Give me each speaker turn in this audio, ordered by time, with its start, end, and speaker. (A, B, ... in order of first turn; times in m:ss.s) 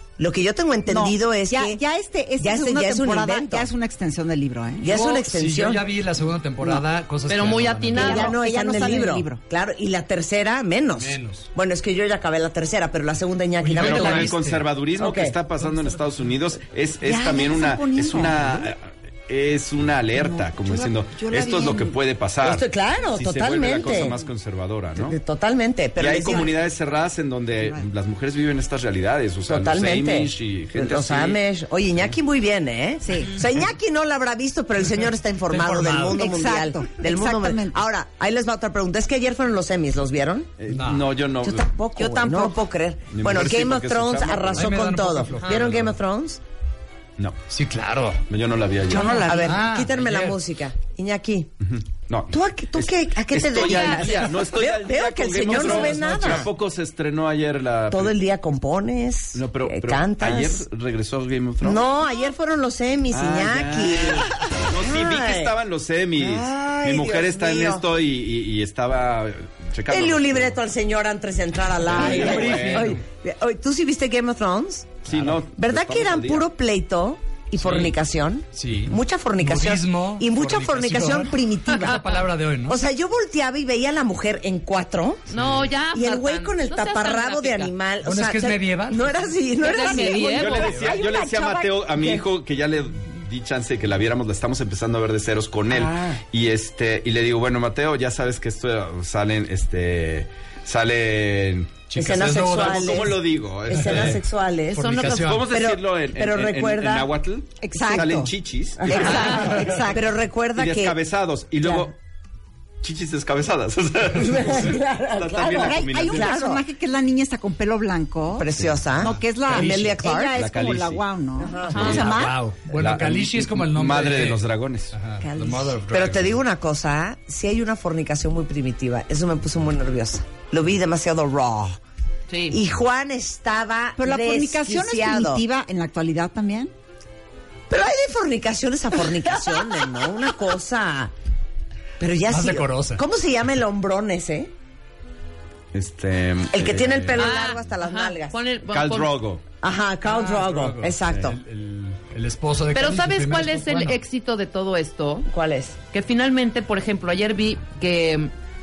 0:00.2-0:01.8 A
0:00.9-0:04.9 B
0:02.4-0:03.7 A
0:04.8-0:05.8 A
0:04.9-0:08.2 C
0:07.3-0:08.3 D
0:07.9-0:09.4 B
0:08.0-0:14.4 A
0:11.0-0:11.5 C
0:13.6-0:14.7 C
0:13.7-0:25.2 E
0:15.0-0:15.3 A
0:15.6-0:16.0 C
0:17.0-0:18.7 B
0:20.1-0:22.0 B
0:22.4-0:24.2 A
0:25.0-0:26.5 A
0:26.0-0:31.4 E
0:27.6-0:27.8 B
0:29.5-0:40.5 A
0:33.0-0:33.4 B
0:35.5-0:36.3 C
0:36.1-0:37.8 B
0:40.6-0:41.7 E
0:40.7-0:41.1 C
0:41.4-0:46.4 A
0:42.0-0:42.5 B
0:43.1-0:44.8 E
0:44.5-0:45.9 C
0:45.3-0:45.6 D
0:47.5-0:48.2 C
0:48.3-0:49.5 E
0:48.8-0:50.4 C
0:49.2-0:51.5 A
0:49.3-0:49.5 B
0:51.6-0:58.2 E
0:52.3-0:56.5 A
0:53.6-0:54.3 D
0:55.6-0:56.2 C
0:57.9-1:00.6 A
0:59.3-1:01.8 E
1:01.6-1:05.5 A
1:03.1-1:10.6 E
1:06.2-1:07.8 A
1:09.9-1:15.0 A
1:11.9-1:13.0 E
1:11.9-1:13.0 C
1:15.0-1:16.5 E
1:15.1-1:15.4 C
1:15.6-1:22.0 A
1:17.6-1:17.9 C
1:18.5-1:22.8 C
1:21.7-1:22.1 D
1:22.7-1:25.2 A
1:25.3-1:27.7 D
1:25.3-1:25.7 C
1:25.9-1:32.3 A
1:28.0-1:29.2 C
1:29.6-1:30.7 D
1:30.4-1:44.2 E
1:30.5-1:30.9 C
1:35.7-1:36.2 A
1:41.9-1:43.2 C
1:42.0-1:44.9 A
1:43.7-1:44.2 C
1:44.7-1:45.5 C
1:44.8-1:45.3 D
1:45.0-1:49.5 E
1:45.5-1:47.1 A
1:47.6-1:48.3 B
1:48.8-1:51.0 A
1:48.8-1:50.0 B
1:50.6-1:51.9 E
1:51.6-1:51.9 A
1:52.8-1:56.4 E
1:54.1-1:56.6 A
1:55.6-2:02.4 B
1:58.4-2:00.4 A
1:58.6-1:59.1 E
1:59.5-1:59.9 C
2:00.3-2:01.0 E
2:01.4-2:01.9 A
2:01.7-2:02.0 D
2:01.7-2:05.0 E
2:01.8-2:06.3 C
2:05.2-2:11.8 A
2:12.3-2:12.6 D
2:12.5-2:15.4 A
2:14.0-2:16.7 B
2:17.7-2:21.1 A
2:22.0-2:24.5 A
2:22.3-2:23.0 C
2:25.7-2:27.2 E
2:26.5-2:28.4 A
2:27.2-2:29.2 D
2:28.7-2:29.4 E
2:29.6-2:31.4 A
2:30.1-2:34.0 C
2:32.7-2:35.3 D
2:35.3-2:35.8 A
2:35.9-2:38.3 D